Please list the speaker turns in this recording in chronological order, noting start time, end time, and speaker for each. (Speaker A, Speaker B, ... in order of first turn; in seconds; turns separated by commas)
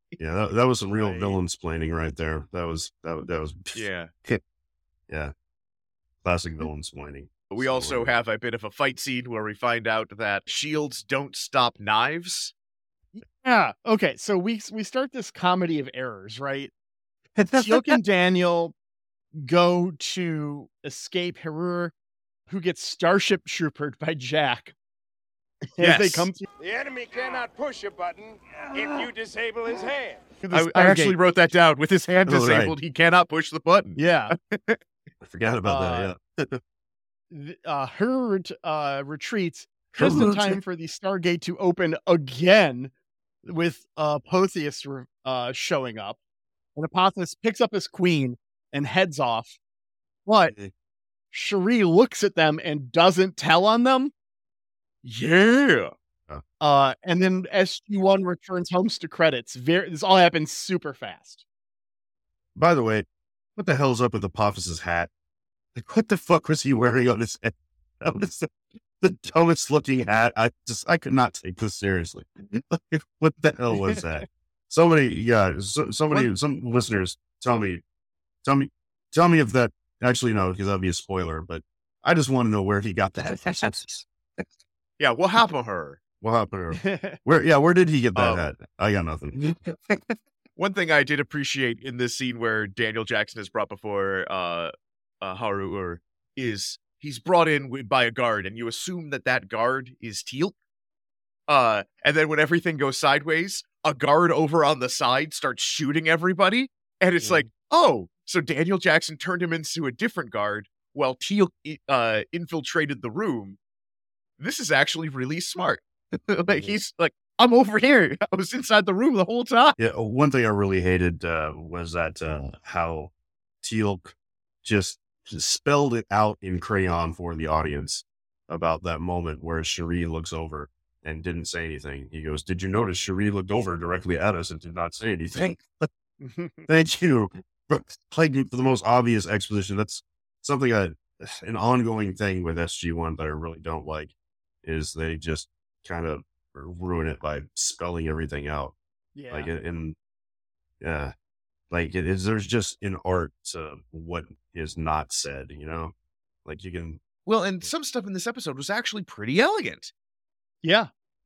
Speaker A: 0.2-4.4, Speaker B: 1.0-1.3, Speaker C: 3.7-4.1, Speaker A: 6.2-8.2, Speaker C: 7.5-12.5, Speaker B: 13.1-16.7, Speaker A: 17.4-18.0, Speaker B: 17.5-18.7, Speaker B: 19.3-21.9, Speaker B: 22.5-24.7, Speaker B: 25.8-26.4, Speaker C: 25.8-26.3, Speaker D: 26.6-30.3, Speaker B: 30.5-31.1, Speaker C: 30.5-34.8, Speaker A: 32.2-32.8, Speaker B: 34.0-34.4, Speaker A: 35.2-36.6, Speaker B: 35.6-36.1, Speaker B: 37.3-42.9, Speaker A: 39.9-40.6, Speaker B: 43.4-46.2, Speaker B: 46.7-49.6, Speaker B: 50.2-50.5, Speaker B: 51.3-54.1, Speaker C: 55.0-55.9, Speaker B: 56.6-61.4, Speaker A: 62.5-63.0, Speaker A: 63.6-65.1, Speaker A: 65.7-77.8, Speaker A: 78.4-84.4, Speaker C: 85.0-86.0, Speaker A: 86.2-90.1, Speaker B: 86.8-87.2, Speaker C: 88.2-88.4, Speaker C: 90.6-100.5, Speaker C: 101.5-113.6, Speaker C: 114.4-119.8, Speaker A: 116.5-116.8, Speaker A: 119.8-124.1, Speaker A: 124.6-135.9, Speaker B: 136.2-136.7, Speaker A: 136.7-144.1, Speaker A: 144.6-148.7, Speaker B: 149.1-149.5, Speaker A: 149.3-149.9, Speaker A: 150.8-151.1, Speaker A: 151.7-155.9, Speaker A: 156.4-157.0, Speaker C: 157.2-159.9, Speaker B: 160.6-160.9